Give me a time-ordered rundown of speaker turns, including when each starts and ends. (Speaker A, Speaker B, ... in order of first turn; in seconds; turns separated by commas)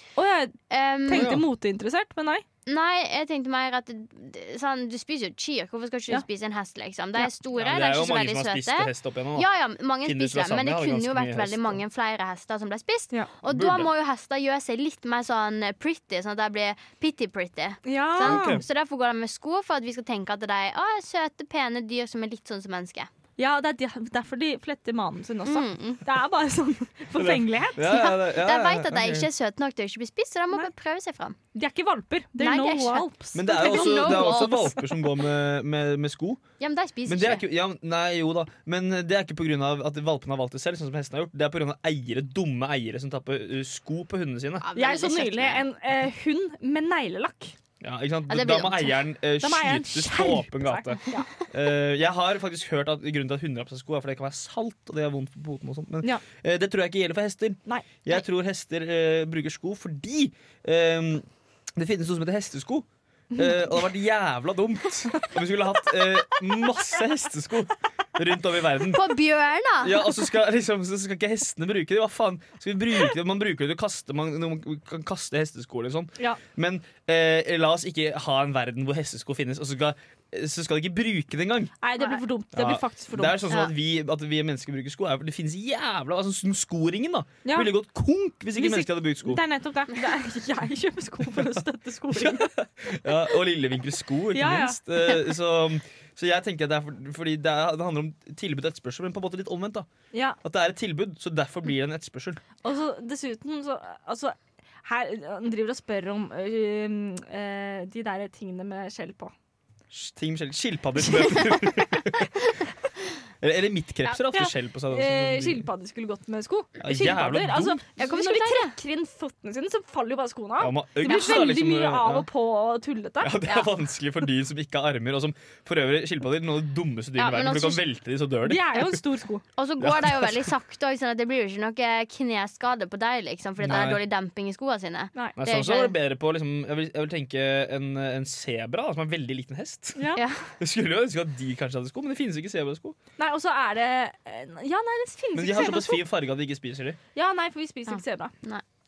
Speaker A: 0.2-2.5, Speaker B: 0.7-1.3, Speaker C: 1.1-1.4, Speaker B: 2.7-23.1, Speaker C: 7.5-9.5, Speaker C: 10.0-11.8, Speaker C: 13.5-13.9, Speaker A: 17.9-18.6, Speaker C: 18.2-18.6, Speaker A: 23.4-27.9, Speaker B: 25.4-26.0, Speaker C: 27.1-29.3, Speaker B: 27.8-31.4, Speaker A: 31.5-34.7, Speaker B: 32.4-34.9, Speaker C: 33.3-36.4, Speaker B: 36.6-37.4, Speaker C: 37.1-44.6, Speaker B: 44.6-45.6, Speaker A: 44.8-47.5, Speaker C: 47.8-69.2, Speaker B: 48.3-49.0, Speaker A: 49.4-51.3, Speaker A: 57.7-57.9, Speaker B: 68.9-70.2, Speaker C: 69.8-81.7, Speaker A: 81.8-83.5, Speaker C: 82.5-89.4, Speaker A: 87.5-87.7, Speaker A: 88.5-92.5, Speaker C: 91.3-99.9, Speaker A: 94.3-95.3, Speaker A: 100.1-100.4, Speaker C: 100.4-102.4, Speaker A: 102.6-109.3, Speaker C: 109.9-112.3, Speaker C: 113.4-115.7, Speaker A: 114.1-123.6, Speaker C: 116.8-117.8, Speaker B: 118.0-118.8, Speaker C: 120.6-122.3, Speaker C: 123.2-129.0, Speaker B: 127.2-127.8, Speaker A: 128.4-129.4, Speaker B: 129.6-135.9, Speaker C: 129.8-130.5, Speaker C: 133.6-134.0, Speaker C: 135.4-140.1, Speaker A: 140.0-140.2, Speaker B: 140.2-140.5, Speaker C: 140.6-143.0, Speaker A: 143.2-146.0, Speaker C: 145.3-147.0, Speaker A: 147.2-148.3, Speaker B: 147.9-148.6